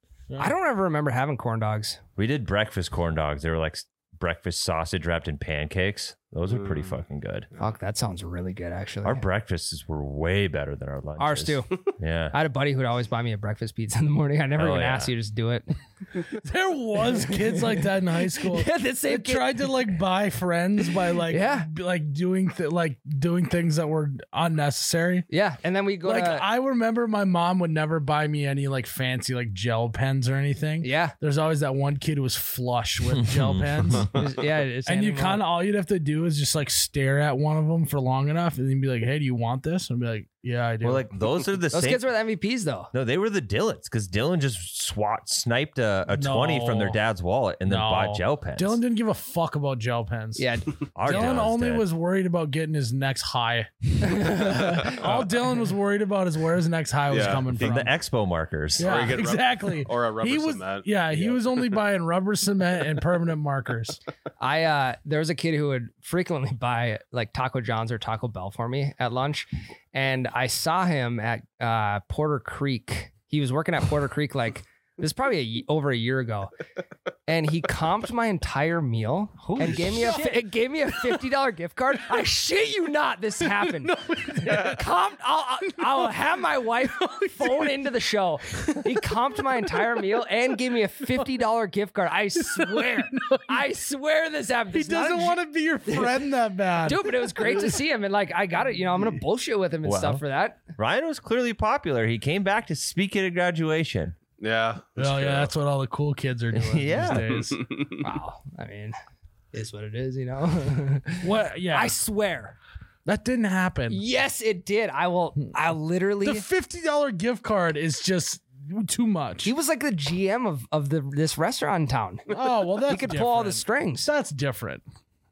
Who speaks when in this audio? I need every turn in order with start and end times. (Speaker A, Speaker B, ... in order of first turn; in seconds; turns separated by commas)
Speaker A: 0.4-2.0, Speaker B: 2.2-7.5, Speaker C: 6.5-7.0, Speaker A: 7.6-9.2, Speaker B: 9.0-12.4, Speaker A: 11.2-15.7, Speaker B: 14.6-15.1, Speaker D: 16.3-25.3, Speaker A: 17.1-19.9, Speaker A: 21.3-21.7, Speaker A: 25.3-26.5, Speaker D: 26.0-34.2, Speaker A: 30.8-31.1, Speaker B: 33.2-34.1, Speaker A: 34.1-35.4, Speaker D: 34.9-41.1, Speaker B: 40.8-42.0, Speaker A: 41.7-42.9, Speaker B: 42.9-48.8, Speaker D: 46.1-47.0, Speaker D: 47.6-50.5, Speaker A: 50.4-51.5, Speaker B: 51.0-51.9, Speaker D: 51.0-57.9, Speaker A: 54.1-55.0, Speaker C: 57.1-57.7, Speaker B: 57.5-58.9, Speaker C: 58.8-61.6, Speaker D: 58.8-64.0, Speaker A: 64.4-76.5, Speaker A: 77.3-96.3, Speaker B: 79.5-80.4, Speaker D: 79.5-80.2, Speaker D: 83.7-84.8, Speaker D: 87.0-87.7, Speaker D: 92.5-93.5, Speaker D: 94.7-97.7, Speaker A: 96.8-100.7, Speaker B: 99.8-100.2, Speaker B: 100.8-104.2, Speaker C: 104.4-105.5, Speaker D: 105.0-107.6, Speaker B: 106.5-107.3, Speaker C: 107.5-108.0, Speaker A: 108.0-109.0, Speaker A: 109.5-112.6, Speaker D: 111.2-111.9, Speaker D: 113.1-114.0, Speaker A: 113.9-116.5, Speaker D: 116.2-119.5, Speaker A: 119.5-124.1, Speaker D: 122.3-124.8